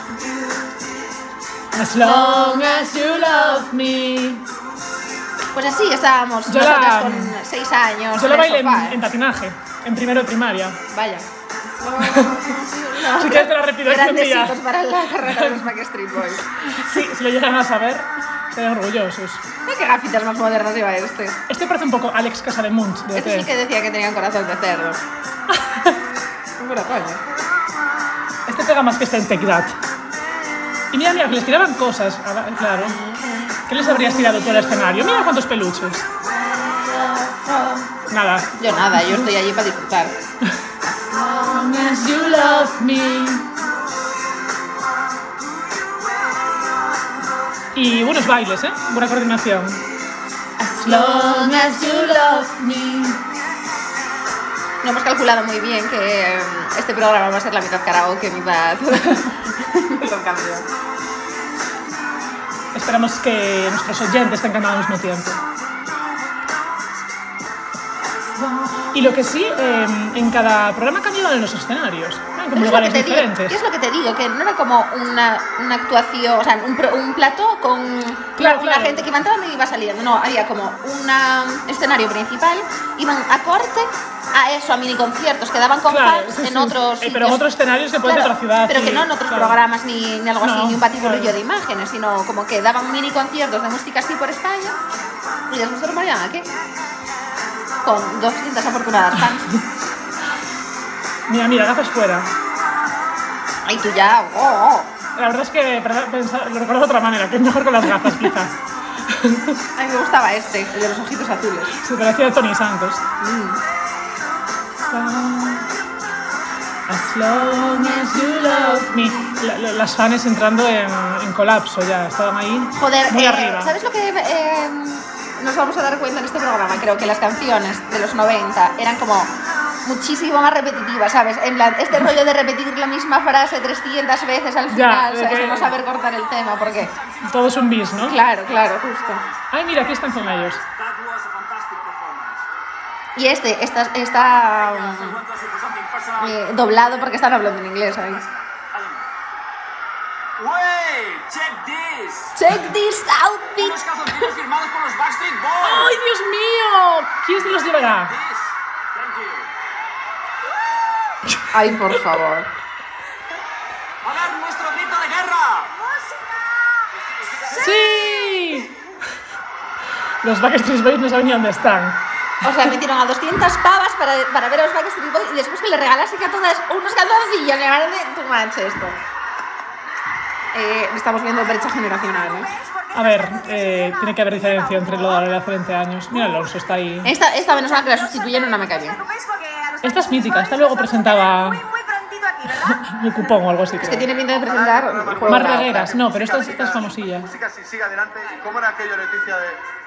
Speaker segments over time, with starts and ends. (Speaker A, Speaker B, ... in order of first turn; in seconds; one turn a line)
Speaker A: 1.7-4.4
Speaker B: 2.0-2.8
Speaker B: 5.5-9.0
Speaker A: 6.5-7.4
Speaker A: 8.1-10.8
Speaker B: 10.9-16.8
Speaker A: 12.0-12.4
Speaker A: 13.1-14.6
Speaker A: 15.2-15.7
Speaker A: 16.6-19.4
Speaker B: 19.6-21.4
Speaker A: 21.5-23.5
Speaker B: 23.1-25.0
Speaker A: 25.5-26.0
Speaker B: 26.6-27.2
Speaker A: 28.5-29.8
Speaker A: 30.9-33.0
Speaker B: 32.8-35.0
Speaker A: 33.7-36.0
Speaker B: 36.2-37.9
Speaker A: 38.1-39.3
Speaker B: 38.5-40.1
Speaker B: 41.1-42.7
Speaker A: 41.4-43.4
Speaker A: 47.7-49.8
Speaker B: 50.6-52.5
Speaker A: 50.7-53.2
Speaker B: 54.8-60.6
Speaker A: 62.7-65.4
Speaker A: 68.5-73.6
Speaker B: 72.5-87.4
Speaker A: 78.4-79.1
Speaker A: 85.9-89.6
Speaker B: 88.0-94.8
Speaker A: 90.4-91.3
Speaker B: 95.5-96.5
Speaker B: 97.8-99.5
Speaker A: 101.3-102.3
Speaker B: 103.6-104.9
Speaker A: 105.2-108.5
Speaker A: 109.0-109.6
Speaker B: 109.7-111.8
Speaker A: 111.8-113.0
Speaker B: 113.2-113.6
Speaker A: 114.8-115.7
Speaker A: 116.9-123.7
Speaker B: 122.7-129.3
Speaker B: 129.8-136.9
Speaker A: 134.7-135.7
Speaker A: 137.2-138.2
Speaker B: 138.0-139.2
Speaker A: 139.5-140.6
Speaker C: 140.6-141.8
Speaker B: 143.2-145.2
Speaker C: 144.9-146.2
Speaker B: 146.2-148.2
Speaker C: 148.7-149.0
Speaker C: 150.4-152.1
Speaker B: 152.3-153.8
Speaker C: 153.6-155.6
Speaker A: 155.6-158.1
Speaker C: 159.0-159.4
Speaker B: 161.5-162.5
Speaker C: 164.1-165.4
Speaker D: 165.8-166.8
Speaker A: 167.5-168.7
Speaker A: 170.2-172.0
Speaker B: 172.4-179.0
Speaker B: 180.5-182.5
Speaker D: 182.0-185.3
Speaker A: 182.9-187.1
Speaker D: 186.1-186.5
Speaker B: 187.0-189.0
Speaker D: 187.3-192.8
Speaker A: 189.8-191.6
Speaker A: 192.6-194.1
Speaker B: 193.8-195.9
Speaker E: 194.3-199.6
Speaker A: 195.3-197.3